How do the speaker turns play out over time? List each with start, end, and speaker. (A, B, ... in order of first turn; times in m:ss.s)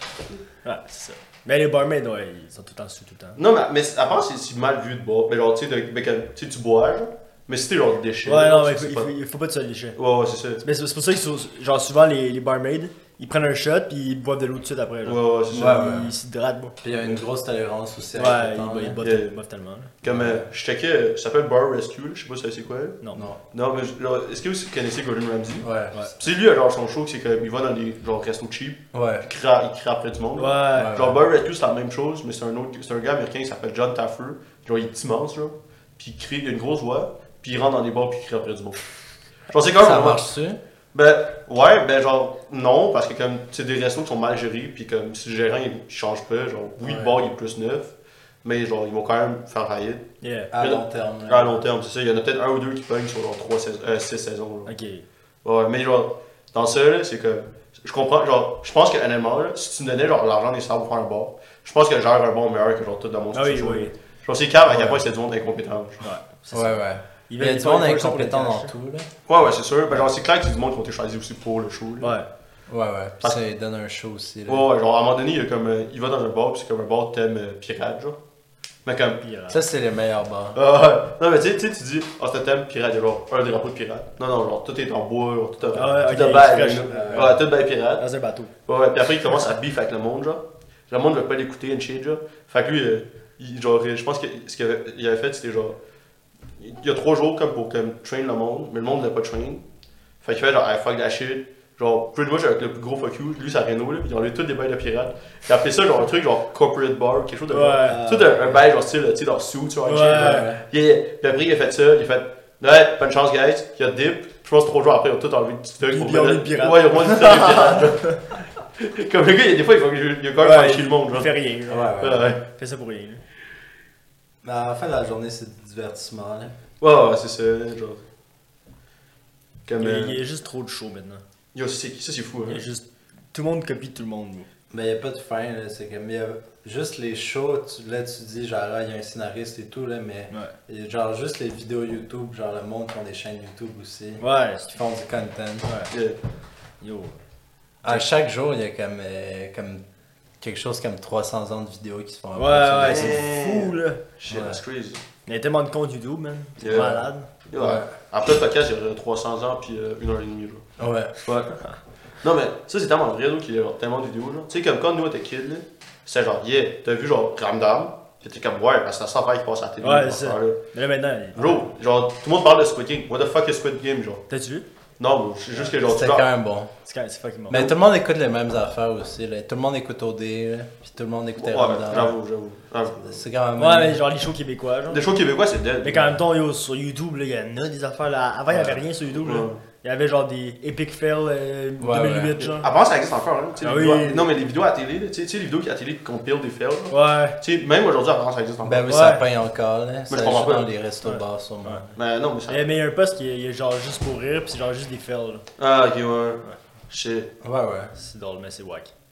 0:00.6-0:03.4 A
0:03.4-0:09.1 B
0:08.3-0:10.0 A
0:10.0-0:10.6 B
0:10.6-0:16.8 A
0:15.0-0:15.8 B
0:15.5-0:16.1 C
0:16.8-0:19.0 C
0:18.2-0:19.9 A
0:19.0-0:19.3 B
0:20.0-0:23.0 B
0:20.1-0:20.5 C
0:23.0-0:23.3 A
0:23.2-0:23.4 C
0:23.5-0:38.8 B
0:25.6-0:26.0 C
0:28.9-0:29.3 C
0:30.4-0:31.0 A
0:30.7-0:31.2 C
0:39.5-0:40.2 B
0:39.8-0:40.6 C
0:40.9-0:47.9 B
0:46.8-0:47.2 C
0:48.4-0:54.7 B
0:50.2-0:50.5 A
0:50.5-0:51.6 C
0:54.7-0:55.0 A
0:55.4-1:06.0 B
1:03.3-1:03.9 A
1:04.7-1:05.0 A
1:06.0-1:08.7 A
1:06.5-1:09.1 C
1:09.3-1:12.2 B
1:12.0-1:12.3 A
1:12.7-1:14.7 C
1:14.5-1:18.2 B
1:18.8-1:19.2 B
1:19.2-1:19.6 A
1:19.5-1:20.6 C
1:20.6-1:28.0 B
1:25.7-1:28.5 A
1:26.9-1:27.4 C
1:28.7-1:35.8 B
1:36.6-1:39.6 B
1:40.2-2:01.3 B
1:47.5-1:48.0 A
1:47.9-1:48.7 C
1:49.8-1:50.5 A
1:50.1-1:50.6 C
1:55.8-1:57.9 A
2:00.4-2:03.2 A
2:01.7-2:02.3 C
2:02.0-2:02.4 B
2:04.4-2:06.6 C
2:06.8-2:08.0 B
2:09.7-2:10.2 B
2:09.8-2:11.2 A
2:11.5-2:12.6 B
2:12.5-2:14.5 A
2:14.7-2:25.7 C
2:24.2-2:24.8 A
2:25.6-2:25.9 A
2:25.9-2:26.2 B
2:26.8-2:27.2 A
2:27.8-2:29.8 C
2:30.4-2:33.2 C
2:32.4-2:34.0 A
2:32.8-2:35.0 B
2:34.3-2:34.6 C
2:35.3-2:37.3 A
2:36.6-2:40.7 B
2:37.6-2:37.9 C
2:40.8-2:41.2 C
2:41.2-2:41.7 B
2:42.2-2:50.6 B
2:49.8-2:51.7 A
2:51.4-2:54.2 B
2:54.3-2:54.6 A
2:55.0-2:56.3 B
2:55.7-2:56.7 C
2:56.8-2:57.6 A
2:57.5-3:02.2 C
3:01.4-3:03.2 B
3:03.0-3:04.0 C
3:03.6-3:05.0 A
3:04.9-3:06.1 B
3:05.8-3:12.6 A
3:08.6-3:09.6 B
3:11.8-3:12.3 C
3:12.4-3:19.0 B
3:13.6-3:14.3 A
3:16.9-3:17.4 A
3:18.6-3:21.9 C
3:18.9-3:19.2 A
3:20.1-3:20.7 B
3:21.0-3:21.8 A
3:22.0-3:22.7 B
3:22.5-3:25.4 A
3:25.6-3:27.3 B
3:27.4-3:27.9 C
3:28.0-3:28.9 A